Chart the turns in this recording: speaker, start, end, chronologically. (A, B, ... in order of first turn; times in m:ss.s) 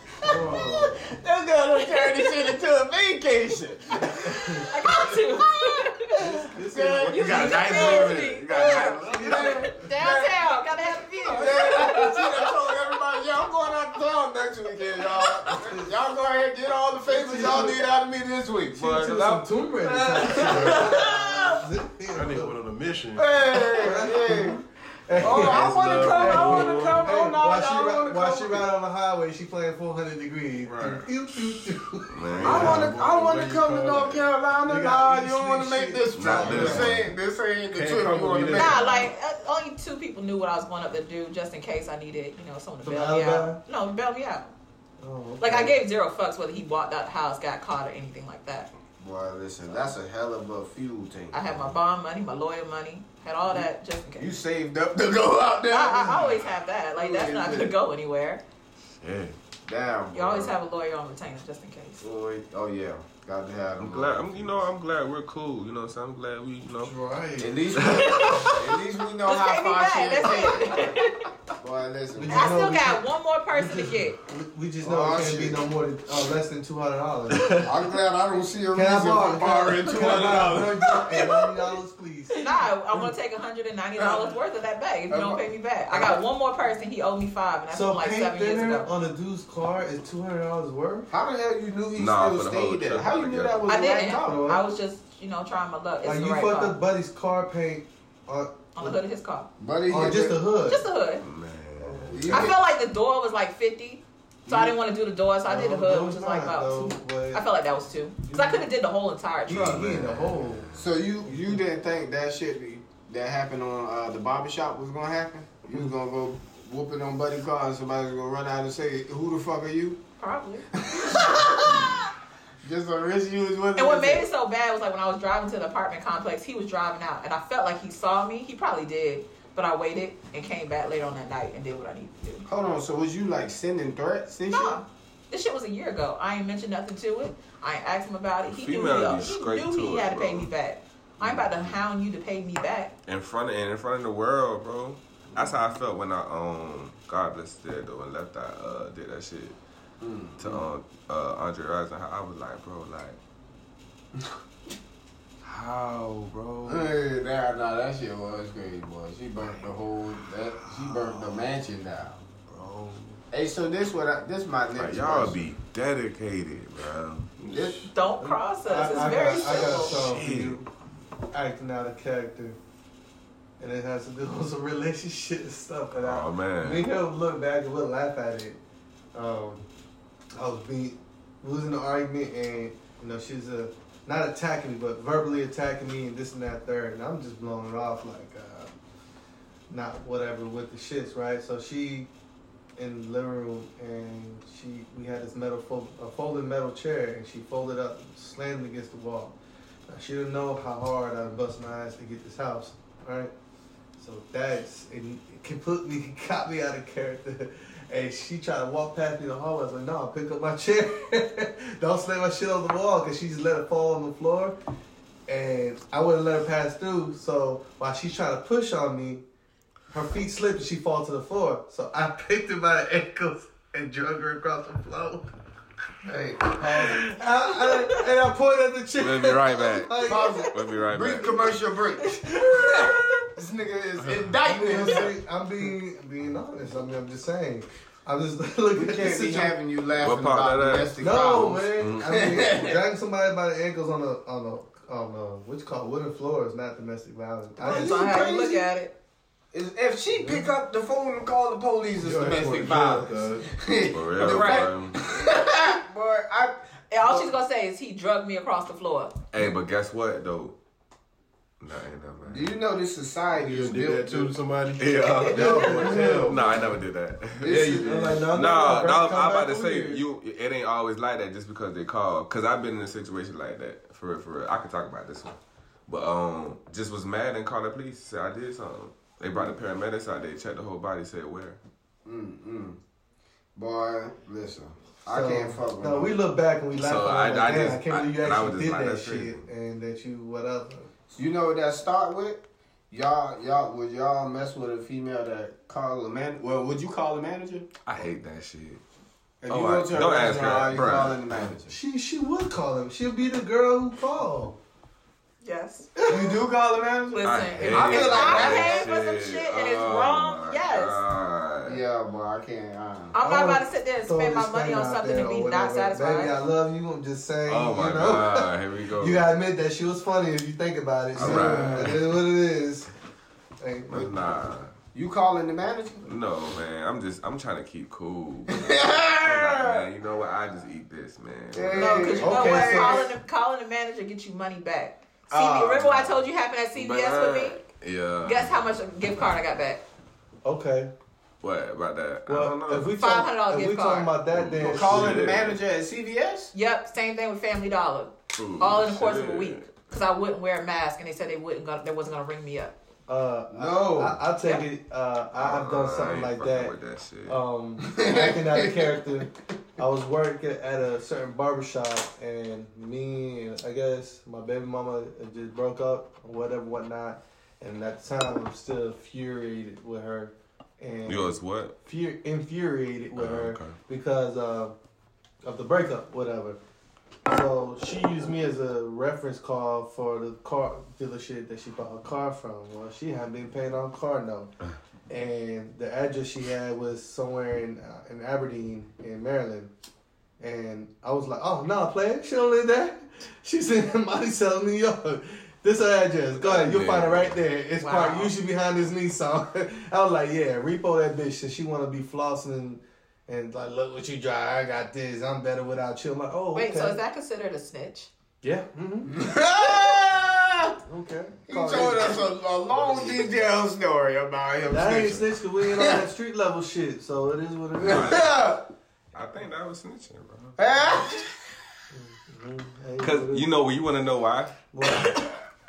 0:00.2-0:01.0 A
0:00.2-0:04.7 B
0:01.8-0:02.3 C
0:04.0-0:05.2 A
0:04.7-0:06.2 C
0:06.2-0:08.1 A
0:06.6-0:10.6 B
0:07.0-0:12.4 C
0:07.8-0:09.7 D
0:09.0-0:09.7 A
0:11.2-0:21.6 B
0:11.7-0:12.2 A
0:15.5-0:15.9 A
0:17.1-0:17.8 A
0:18.7-0:22.6 A
0:22.1-0:23.3 E
0:23.2-0:24.6 B
0:23.6-0:32.9 A
0:25.2-0:28.6 B
0:25.2-0:27.1 E
0:25.8-0:26.2 D
0:30.6-0:31.1 E
0:32.1-0:33.0 D
0:32.4-0:34.3 E
0:32.4-0:39.0 B
0:34.7-0:36.9 A
0:36.1-0:37.1 D
0:36.5-0:36.8 E
0:37.7-0:39.0 E
0:38.5-0:44.5 C
0:42.8-0:43.6 A
0:45.0-0:45.8 A
0:45.4-0:48.7 C
0:49.0-0:51.7 B
0:51.3-0:54.4 C
0:54.2-0:57.8 B
0:55.7-0:58.4 C
0:59.0-0:59.4 D
0:59.6-1:00.5 B
1:00.1-1:02.0 C
1:02.0-1:04.6 B
1:03.8-1:06.9 D
1:06.8-1:07.6 A
1:07.4-1:11.0 B
1:07.7-1:08.6 D
1:07.9-1:08.6 C
1:09.2-1:11.3 C
1:11.6-1:12.6 B
1:12.2-1:17.7 A
1:12.3-1:14.2 C
1:14.8-1:15.6 B
1:17.6-1:21.5 B
1:18.7-1:22.6 A
1:22.3-1:28.9 C
1:24.0-1:24.3 B
1:25.1-1:26.2 B
1:27.7-1:31.1 A
1:31.1-1:34.5 B
1:32.0-1:33.8 D
1:33.7-1:36.8 C
1:34.2-1:34.6 A
1:36.0-1:39.0 A
1:38.8-1:39.5 C
1:39.6-1:40.4 B
1:39.9-1:40.8 A
1:40.7-1:41.2 C
1:41.2-1:42.5 D
1:41.8-1:42.5 A
1:42.1-1:42.6 B
1:42.3-1:49.9 C
1:45.4-1:47.4 A
1:48.3-1:48.7 A
1:49.5-1:50.7 A
1:49.5-1:50.9 D
1:50.8-2:00.0 B
1:51.3-1:51.6 A
2:00.2-2:01.6 C
2:00.8-2:02.0 B
2:02.6-2:04.3 B
2:03.8-2:12.5 C
2:12.5-2:14.8 B
2:14.5-2:22.9 C
2:18.5-2:20.5 D
2:21.2-2:21.8 D
2:23.1-2:29.6 D
2:30.0-2:30.7 B
2:30.4-2:33.2 D
2:35.4-2:36.9 D
2:36.7-2:42.2 B
2:40.6-2:41.4 E
2:42.5-2:43.1 E
2:43.3-2:45.4 B
2:44.8-2:47.3 D
2:47.4-2:47.9 E
2:47.5-2:47.9 B
2:47.9-2:50.0 C
2:48.2-2:50.7 A
2:49.8-2:50.6 D
2:51.3-2:52.6 A
2:53.6-2:58.6 A
2:56.0-2:56.9 D
2:59.1-2:59.7 A
3:00.4-3:08.8 A
3:09.7-3:12.1 A
3:12.8-3:23.3 A
3:24.0-3:34.6 A
3:35.3-3:39.2 A
3:39.9-3:45.3 A
3:46.1-3:46.6 B
3:46.4-3:50.5 A
3:49.0-3:51.6 D
3:50.0-3:55.2 B
3:52.4-3:53.0 A
3:52.5-3:53.1 C
3:54.4-3:59.6 A
3:58.7-4:02.8 B
4:00.0-4:02.5 D
4:01.0-4:08.3 A
4:07.6-4:08.6 B
4:07.6-4:08.9 C
4:09.5-4:17.3 B
4:12.0-4:13.5 E
4:13.9-4:15.0 D
4:14.2-4:15.2 C
4:16.9-4:19.2 C
4:19.3-4:20.6 D
4:21.6-4:22.5 D
4:22.3-4:24.4 B
4:23.3-4:26.3 E
4:24.8-4:35.4 D
4:25.3-4:26.7 A
4:25.3-4:26.8 B
4:27.4-4:28.3 B
4:27.4-4:30.0 A
4:35.9-4:41.6 D
4:42.0-4:42.8 B
4:43.6-4:46.1 B
4:45.1-4:50.9 A
4:46.8-4:49.4 D
4:51.1-4:57.7 B
4:57.8-4:58.8 D
4:59.4-5:01.8 B
4:59.5-5:01.5 D
5:01.7-5:04.6 A
5:05.4-5:06.0 C
5:06.0-5:06.4 A
5:06.1-5:08.9 B
5:07.1-5:11.0 C
5:07.2-5:11.8 D
5:07.8-5:08.7 A
5:11.6-5:13.2 B
5:13.1-5:16.4 C
5:13.2-5:22.9 A
5:17.5-5:19.3 D
5:21.2-5:22.0 D
5:21.2-5:22.0 B
5:23.6-5:24.0 A
5:23.9-5:24.7 D
5:24.9-5:26.1 B
5:26.1-5:32.3 D
5:28.5-5:29.8 B
5:31.5-5:33.1 B
5:31.7-5:37.6 C
5:32.2-5:33.1 A
5:35.3-5:36.2 B
5:36.8-5:38.8 D
5:38.2-5:39.8 C
5:40.4-5:40.9 A
5:41.4-5:42.9 D
5:42.3-5:45.2 A
5:43.0-5:44.1 C
5:44.3-5:45.6 D
5:44.6-5:46.5 B
5:46.5-5:52.7 C
5:48.3-5:49.7 D
5:53.1-5:56.7 A
5:53.5-5:54.2 B
5:55.4-5:57.4 D
5:57.3-6:14.7 A
5:57.8-5:59.0 B
6:11.1-6:11.8 D
6:13.2-6:13.8 D
6:15.4-6:16.6 A
6:17.3-6:24.5 A
6:25.1-6:29.7 A
6:30.4-6:47.0 A
6:36.4-6:37.4 D
6:37.8-6:38.3 C
6:46.5-6:48.1 C
6:48.4-6:49.3 A
6:49.1-6:50.8 B
6:50.9-6:52.3 A
6:51.5-6:56.0 B
6:54.6-6:58.3 A
6:57.8-6:58.4 D
6:57.8-6:58.6 B
6:59.1-7:00.6 D
7:00.6-7:01.4 B
7:01.9-7:03.5 A
7:03.0-7:04.6 D
7:04.7-7:05.2 A